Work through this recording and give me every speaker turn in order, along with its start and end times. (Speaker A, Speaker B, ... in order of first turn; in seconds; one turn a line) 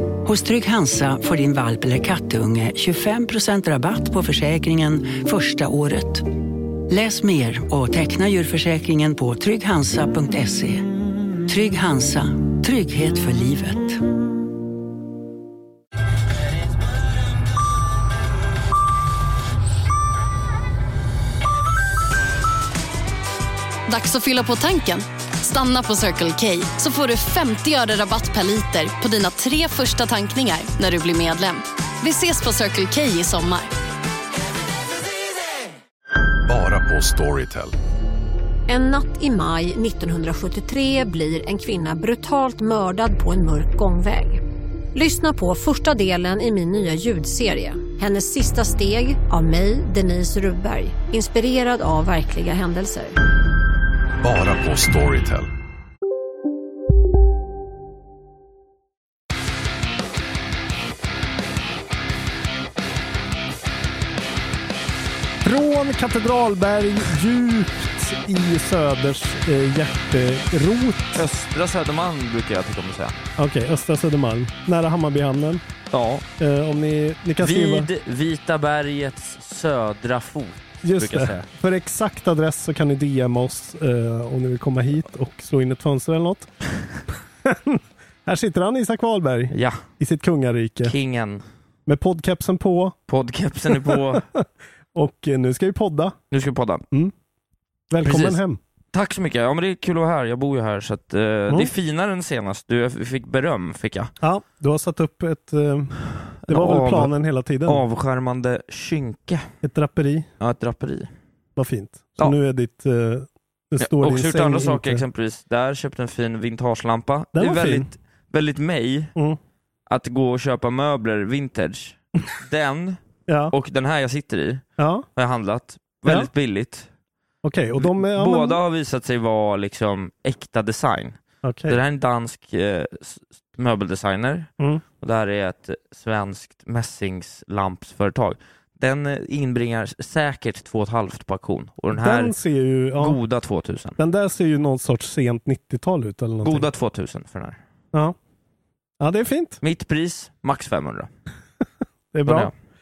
Speaker A: 0.2-6.3
Speaker A: 6.9-10.9
Speaker A: 11.5-14.0
Speaker B: 23.9-33.7
Speaker C: 36.5-37.7
Speaker D: 38.7-44.4
Speaker D: 45.0-53.2
Speaker C: 54.2-55.5
Speaker E: 65.4-71.2
Speaker F: 71.1-73.2
Speaker E: 73.4-75.6
Speaker F: 75.9-76.2
Speaker E: 76.4-77.9
Speaker F: 77.4-81.5
Speaker E: 80.8-86.5
Speaker E: 87.5-91.0
Speaker F: 89.5-89.8
Speaker F: 90.8-91.4
Speaker E: 91.9-93.0
Speaker F: 93.1-94.2
Speaker E: 93.7-96.2
Speaker F: 96.3-96.8
Speaker E: 97.9-98.6
Speaker F: 98.0-98.4
Speaker F: 98.9-104.1
Speaker E: 104.2-107.8
Speaker F: 106.4-107.1
Speaker F: 107.7-109.5
Speaker E: 109.6-110.3
Speaker F: 110.4-111.1
Speaker E: 111.6-115.0
Speaker F: 113.8-119.1
Speaker E: 117.3-117.9
Speaker F: 119.9-123.0
Speaker E: 123.3-123.5
Speaker F: 123.5-124.6
Speaker E: 124.8-125.1
Speaker F: 125.2-126.9
Speaker E: 127.4-128.6
Speaker F: 127.8-134.5
Speaker E: 131.4-131.8
Speaker F: 135.0-142.3
Speaker E: 141.9-143.2
Speaker F: 143.0-144.0
Speaker E: 144.0-146.7
Speaker F: 146.4-147.6
Speaker E: 149.0-149.6
Speaker F: 149.6-151.1
Speaker E: 152.1-152.5
Speaker F: 152.3-152.5